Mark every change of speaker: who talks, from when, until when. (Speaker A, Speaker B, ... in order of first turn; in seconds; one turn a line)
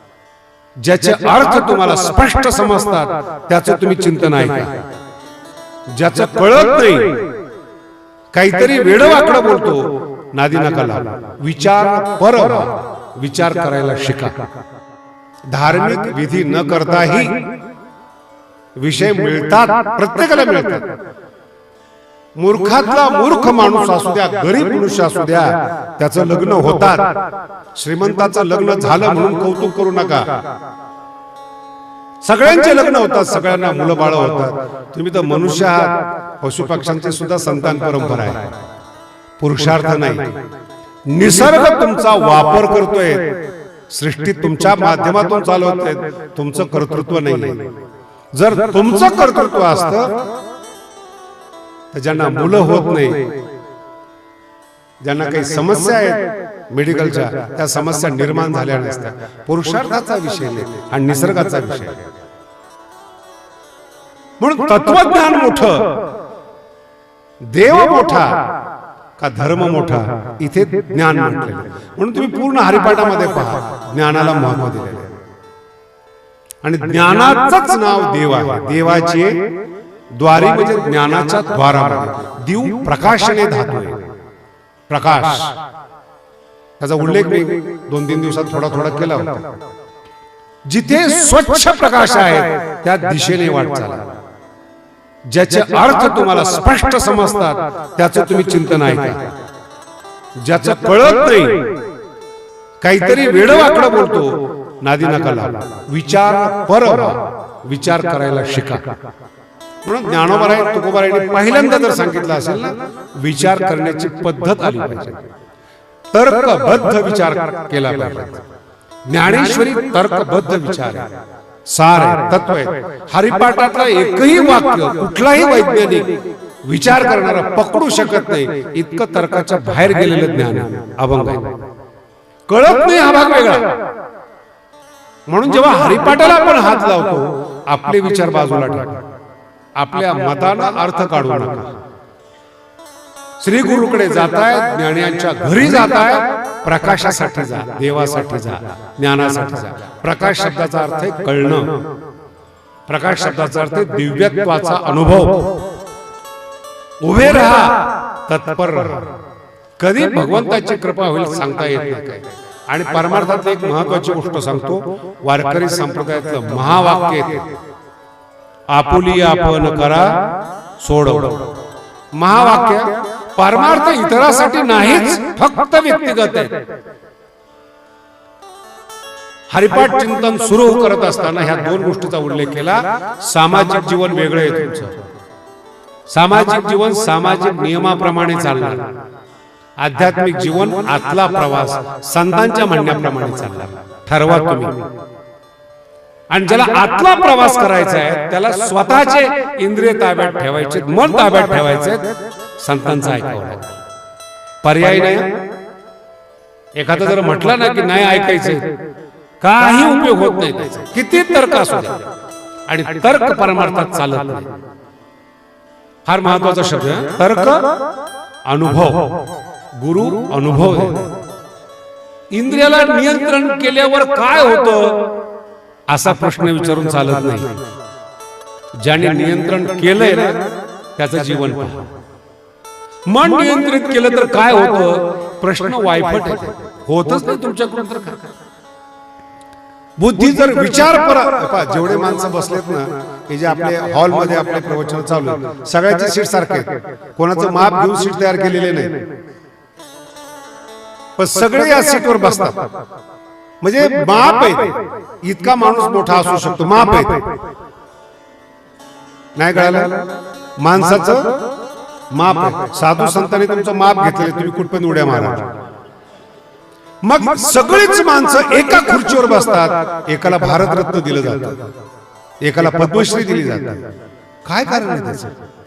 Speaker A: 0.8-4.8
Speaker A: 5.9-7.2
Speaker A: 8.3-14.4
Speaker A: 15.5-17.4
Speaker A: 18.8-20.9
Speaker A: 22.4-27.2
Speaker A: 27.7-30.4
Speaker A: 32.2-38.5
Speaker A: 39.4-40.4
Speaker A: 41.1-43.4
Speaker A: 43.9-47.6
Speaker A: 48.3-50.2
Speaker A: 51.9-53.2
Speaker A: 55.0-62.0
Speaker A: 64.4-66.0
Speaker A: 67.4-68.4
Speaker A: 69.2-75.1
Speaker A: 76.6-79.4
Speaker A: 80.1-84.0
Speaker A: 84.9-85.5
Speaker A: 86.8-89.5
Speaker A: 90.7-94.0
Speaker A: 95.3-99.3
Speaker A: 100.4-101.7
Speaker A: 102.8-108.9
Speaker A: 109.8-115.2
Speaker A: 116.1-118.4
Speaker A: 119.0-121.1
Speaker A: 121.7-126.1
Speaker A: 126.6-131.6
Speaker A: 132.5-133.8
Speaker A: 135.3-139.1
Speaker A: 139.8-141.8
Speaker A: 143.4-151.8
Speaker A: 152.9-155.6
Speaker A: 157.0-159.1
Speaker A: 159.8-167.5
Speaker A: 168.7-170.2
Speaker A: 170.8-171.5
Speaker A: 172.2-176.6
Speaker A: 179.5-185.0
Speaker A: 186.1-188.9
Speaker A: 189.8-194.8
Speaker A: 196.3-203.8
Speaker A: 204.6-205.3
Speaker A: 206.8-208.8
Speaker A: 209.4-212.0
Speaker A: 212.7-214.5
Speaker A: 216.1-217.8
Speaker A: 218.5-219.2
Speaker A: 219.8-221.1
Speaker A: 222.3-225.1
Speaker A: 225.9-227.6
Speaker A: 228.8-231.9
Speaker A: 233.1-238.2
Speaker A: 240.0-249.1
Speaker A: 251.2-252.7
Speaker A: 253.6-257.3
Speaker A: 259.4-260.0
Speaker A: 260.6-261.4
Speaker A: 262.1-265.5
Speaker A: 267.0-271.6
Speaker A: 272.4-273.8
Speaker A: 274.4-275.3